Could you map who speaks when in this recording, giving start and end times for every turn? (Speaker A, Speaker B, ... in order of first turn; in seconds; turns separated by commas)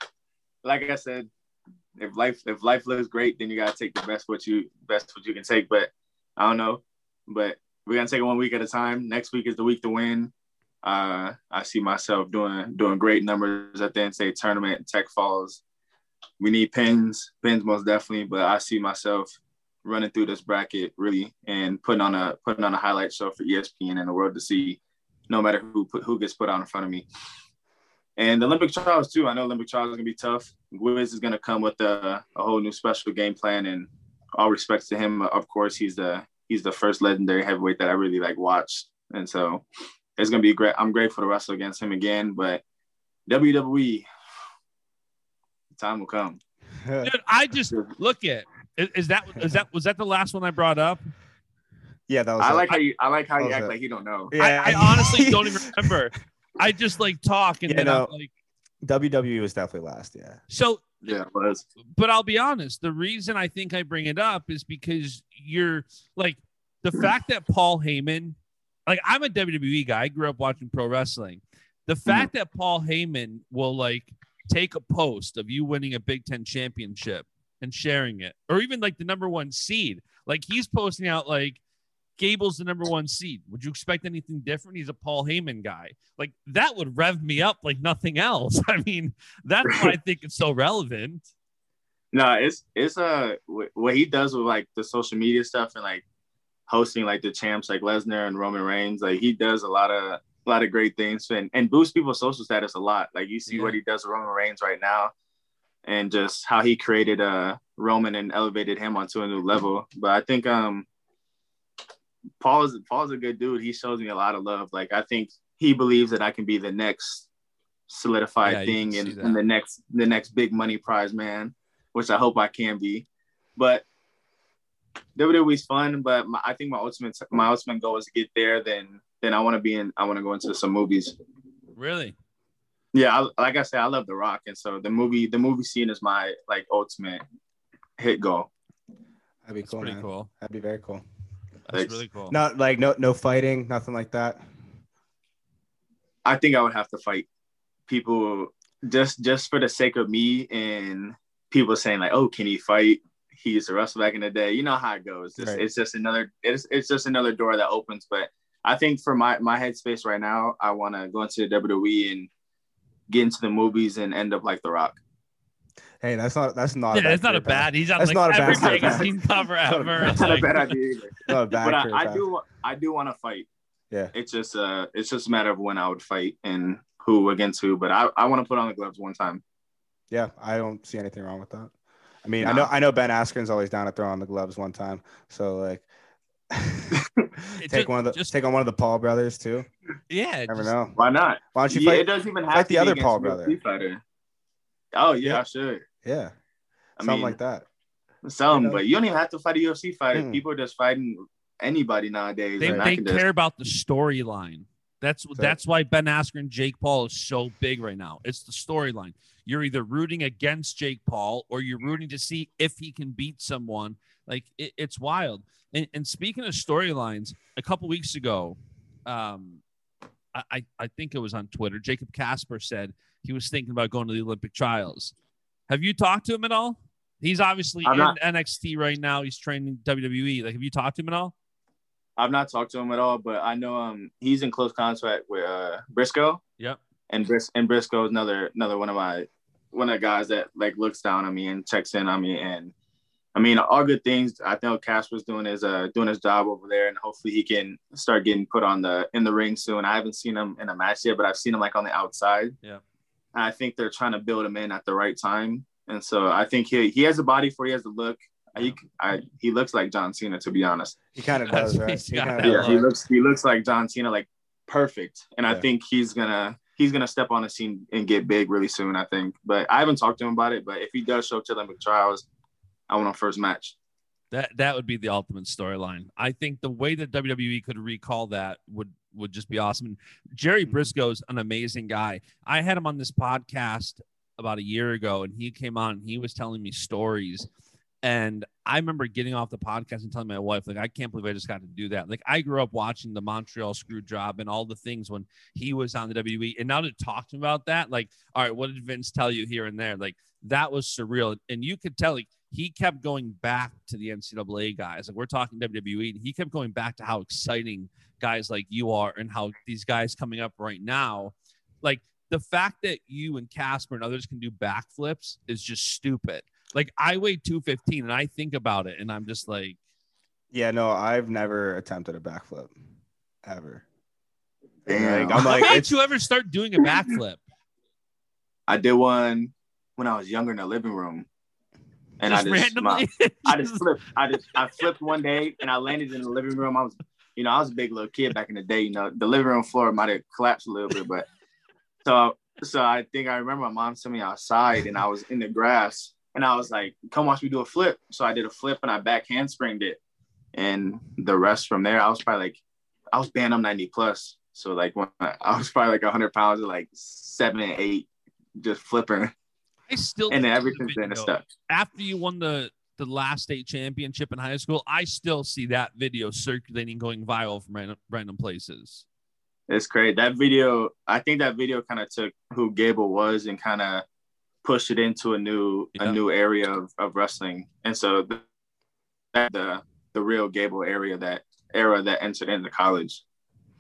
Speaker A: 0.6-1.3, Speaker A: 2.0-10.3, Speaker A: 10.8-15.6, Speaker A: 16.4-27.1, Speaker A: 28.2-39.6, Speaker A: 40.2-42.6, Speaker A: 43.3-44.1, Speaker A: 45.8-46.4, Speaker B: 46.8-47.1, Speaker C: 47.0-51.0, Speaker B: 52.1-52.8, Speaker A: 52.4-54.3, Speaker B: 53.4-53.7, Speaker B: 54.3-56.0, Speaker C: 54.4-58.3, Speaker B: 57.7-58.1, Speaker B: 58.8-60.4, Speaker C: 60.5-61.2, Speaker A: 61.0-61.6, Speaker C: 61.9-81.6, Speaker C: 82.2-91.3, Speaker A: 89.6-90.0, Speaker A: 92.1-96.0, Speaker A: 96.7-105.1, Speaker C: 103.5-103.8, Speaker A: 105.8-110.9, Speaker A: 112.4-117.3, Speaker A: 117.9-123.8, Speaker C: 118.5-119.4, Speaker A: 125.2-131.2, Speaker C: 131.8-132.2, Speaker A: 132.9-137.2, Speaker A: 138.0-138.5, Speaker B: 139.4-141.0, Speaker C: 139.6-140.3, Speaker C: 141.7-142.3, Speaker A: 141.7-142.0, Speaker B: 142.3-144.4, Speaker A: 146.2-147.3, Speaker A: 147.9-162.3, Speaker B: 155.4-155.7, Speaker A: 163.1-165.0, Speaker B: 166.0-169.1, Speaker C: 166.9-170.7, Speaker A: 168.4-169.1, Speaker B: 169.7-170.4, Speaker A: 170.0-173.5, Speaker B: 171.3-172.3, Speaker A: 174.1-179.4, Speaker B: 180.1-181.7, Speaker B: 182.2-185.9, Speaker A: 182.4-182.7, Speaker B: 186.5-187.0, Speaker A: 186.9-187.3, Speaker C: 187.6-188.3, Speaker B: 187.6-189.7, Speaker C: 190.1-190.8, Speaker B: 190.5-191.0, Speaker A: 191.0-194.0, Speaker B: 191.5-193.6, Speaker A: 194.9-195.9, Speaker B: 196.0-196.3, Speaker A: 197.0-197.4, Speaker B: 197.0-197.7, Speaker A: 198.2-203.2, Speaker B: 198.5-198.8, Speaker B: 200.1-200.4, Speaker C: 202.6-219.6, Speaker B: 202.6-202.9, Speaker C: 220.3-225.1, Speaker C: 225.7-231.3, Speaker A: 227.8-228.2, Speaker A: 232.2-236.4, Speaker A: 237.1-242.7, Speaker A: 243.3-252.6, Speaker A: 253.3-261.0, Speaker B: 261.1-262.8, Speaker C: 261.5-262.9, Speaker A: 262.4-272.3, Speaker A: 272.9-273.8, Speaker C: 274.3-287.5, Speaker B: 280.6-280.9, Speaker C: 288.0-319.8, Speaker B: 320.5-322.7, Speaker B: 323.4-323.9, Speaker B: 324.9-325.9, Speaker A: 324.9-325.8, Speaker C: 325.3-327.4, Speaker A: 328.7-331.3, Speaker A: 332.2-341.3, Speaker C: 332.2-333.9, Speaker A: 342.0-350.0, Speaker A: 350.5-352.6, Speaker A: 353.1-359.3, Speaker C: 359.9-369.1, Speaker A: 360.3-361.4, Speaker A: 369.7-374.1, Speaker A: 374.6-378.4, Speaker A: 379.3-383.2